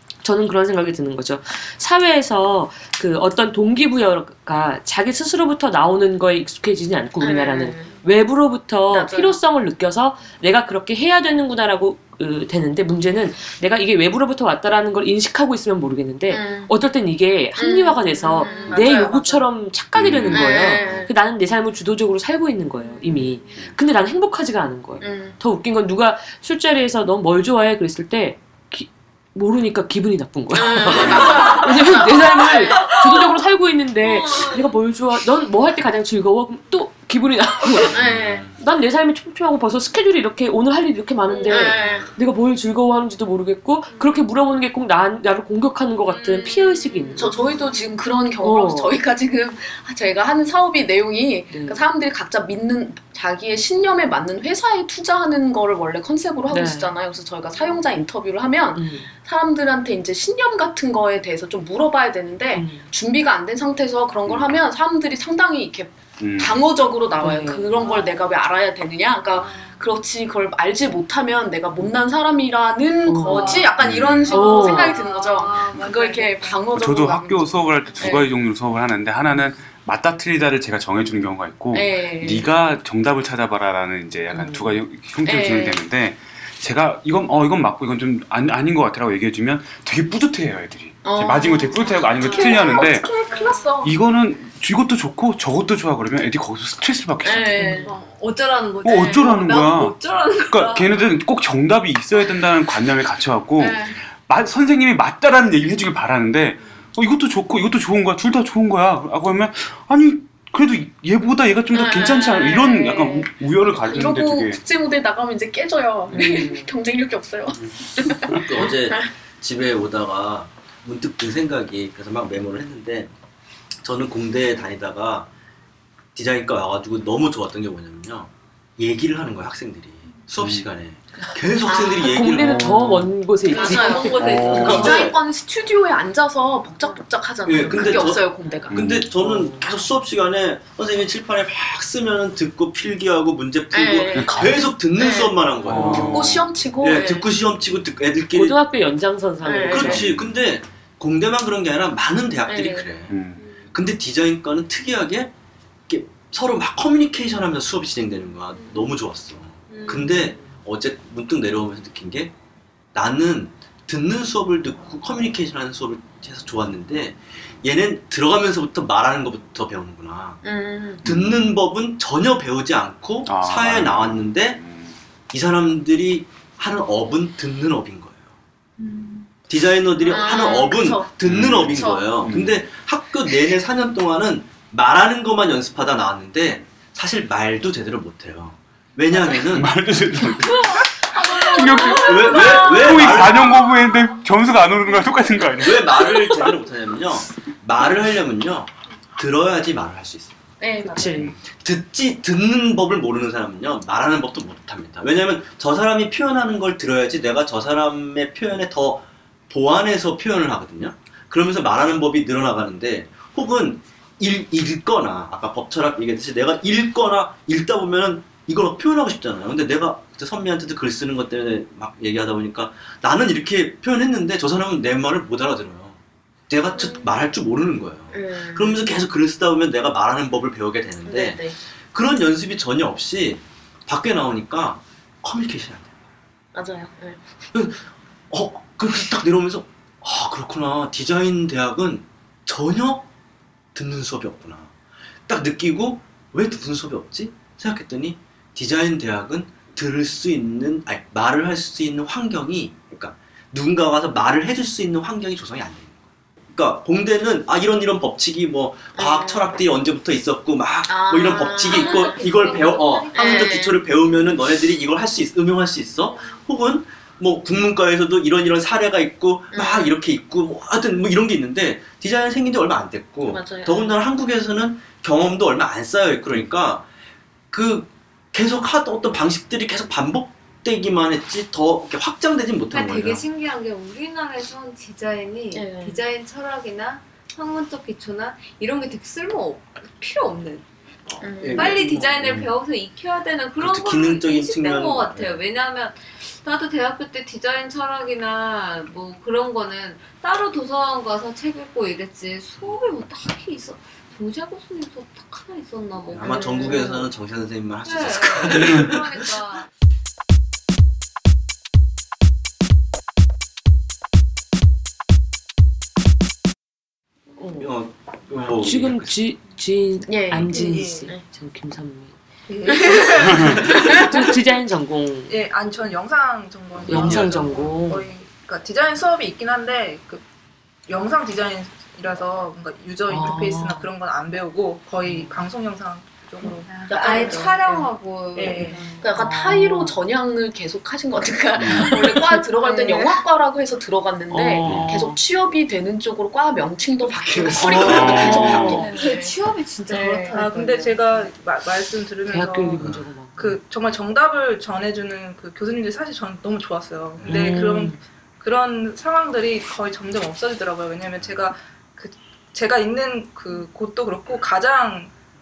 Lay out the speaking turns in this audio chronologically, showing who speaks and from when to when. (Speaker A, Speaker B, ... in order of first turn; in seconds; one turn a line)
Speaker A: 0.2-38.0
Speaker B: 7.2-7.9
Speaker B: 8.9-9.4
Speaker B: 16.3-16.7
Speaker B: 17.6-19.5
Speaker C: 18.4-18.7
Speaker D: 19.9-21.0
Speaker B: 20.3-21.1
Speaker C: 22.8-23.6
Speaker B: 25.0-25.4
Speaker B: 30.5-33.3
Speaker C: 31.2-31.7
Speaker C: 32.4-33.0
Speaker C: 34.0-34.7
Speaker E: 37.9-38.5
Speaker B: 37.9-38.5
Speaker A: 38.6-47.3
Speaker C: 41.3-42.1
Speaker B: 41.3-42.1
Speaker C: 43.9-44.3
Speaker C: 46.0-47.9
Speaker B: 47.2-78.3
Speaker A: 48.4-49.0
Speaker A: 51.5-51.8
Speaker A: 56.5-56.9
Speaker C: 57.5-57.8
Speaker A: 58.8-59.1
Speaker A: 62.5-62.9
Speaker D: 64.3-64.5
Speaker D: 66.2-66.6
Speaker A: 67.2-67.7
Speaker C: 67.8-68.2
Speaker C: 69.4-69.8
Speaker A: 73.0-73.7
Speaker C: 73.3-73.7
Speaker D: 73.8-74.3
Speaker C: 74.3-76.7
Speaker A: 74.3-75.0
Speaker D: 76.7-93.1
Speaker B: 81.7-82.5
Speaker A: 84.3-84.8
Speaker B: 85.2-85.8
Speaker B: 91.0-93.9
Speaker C: 92.1-93.8
Speaker D: 93.8-97.9
Speaker B: 97.2-97.9
Speaker C: 97.9-101.1
Speaker D: 98.8-100.0
Speaker B: 98.9-99.3
Speaker D: 100.5-114.6
Speaker B: 103.6-104.0
Speaker B: 111.7-119.0
Speaker A: 116.1-116.7
Speaker D: 117.6-118.5
Speaker E: 118.4-123.1
Speaker E: 123.8-125.3
Speaker E: 126.2-132.9
Speaker D: 130.4-130.7
Speaker B: 131.6-132.4
Speaker A: 132.0-134.8
Speaker D: 132.4-133.1
Speaker C: 133.5-135.2
Speaker B: 133.5-138.8
Speaker D: 134.1-134.9
Speaker E: 134.7-135.1
Speaker E: 137.4-148.6
Speaker D: 138.7-139.1
Speaker A: 139.2-139.7
Speaker B: 143.7-147.3
Speaker D: 144.2-144.7
Speaker D: 145.7-146.5
Speaker A: 145.7-146.2
Speaker A: 148.3-150.1
Speaker B: 149.4-150.0
Speaker E: 149.6-153.2
Speaker D: 149.8-150.3
Speaker B: 152.5-152.9
Speaker D: 153.1-153.4
Speaker C: 153.4-153.7
Speaker E: 153.7-155.3
Speaker E: 155.9-162.3
Speaker C: 158.5-158.9
Speaker C: 159.7-160.2
Speaker E: 162.9-170.4
Speaker B: 170.4-171.0
Speaker D: 171.0-171.6
Speaker E: 171.0-174.6
Speaker D: 173.2-175.0
Speaker E: 175.3-178.2
Speaker B: 178.8-179.2
Speaker E: 179.5-189.8
Speaker B: 180.0-182.3
Speaker D: 181.2-182.7
Speaker D: 189.3-196.4
Speaker C: 190.5-194.1
Speaker B: 191.8-192.5
Speaker E: 192.0-193.6
Speaker E: 195.6-200.4
Speaker B: 200.6-201.3
Speaker A: 200.8-201.3
Speaker E: 201.5-226.0
Speaker E: 226.5-235.9
Speaker C: 226.8-227.1
Speaker B: 228.1-228.8
Speaker B: 231.1-231.6
Speaker B: 236.5-237.2
Speaker E: 237.5-243.1
Speaker E: 243.8-244.7
Speaker E: 245.3-255.9
Speaker E: 256.5-276.9
Speaker B: 258.9-259.6
Speaker B: 260.9-263.8
Speaker C: 261.6-263.6
Speaker C: 266.1-266.4
Speaker B: 269.5-269.9
Speaker B: 273.3-273.9
Speaker E: 277.5-283.2
Speaker C: 282.7-307.1
Speaker B: 285.5-286.0
Speaker B: 291.2-291.8
Speaker E: 291.4-292.2
Speaker D: 292.2-292.5
Speaker E: 293.6-295.4
Speaker E: 306.1-309.2
Speaker B: 306.2-306.9
Speaker C: 307.9-309.7
Speaker D: 308.6-308.9
Speaker A: 317.4-317.7
Speaker E: 317.6-319.2
Speaker A: 318.6-322.2
Speaker B: 320.1-321.2
Speaker F: 320.4-321.1
Speaker F: 322.5-324.5
Speaker B: 322.7-323.1
Speaker A: 323.2-325.4
Speaker B: 323.7-324.1
Speaker F: 325.3-330.2
Speaker E: 326.8-327.8
Speaker A: 326.9-328.1
Speaker F: 330.9-339.0
Speaker A: 333.1-333.9
Speaker A: 335.1-335.3
Speaker C: 336.7-339.2
Speaker B: 336.9-337.6
Speaker B: 339.0-349.4
Speaker A: 339.1-340.0
Speaker D: 341.6-342.0
Speaker A: 342.1-342.4
Speaker F: 342.6-343.2
Speaker A: 344.3-345.2
Speaker E: 347.1-348.9
Speaker D: 347.8-348.9
Speaker C: 348.0-351.3
Speaker B: 349.9-350.4
Speaker F: 350.3-365.1
Speaker A: 352.3-353.6
Speaker E: 352.8-353.1
Speaker E: 357.2-357.6
Speaker A: 357.3-358.0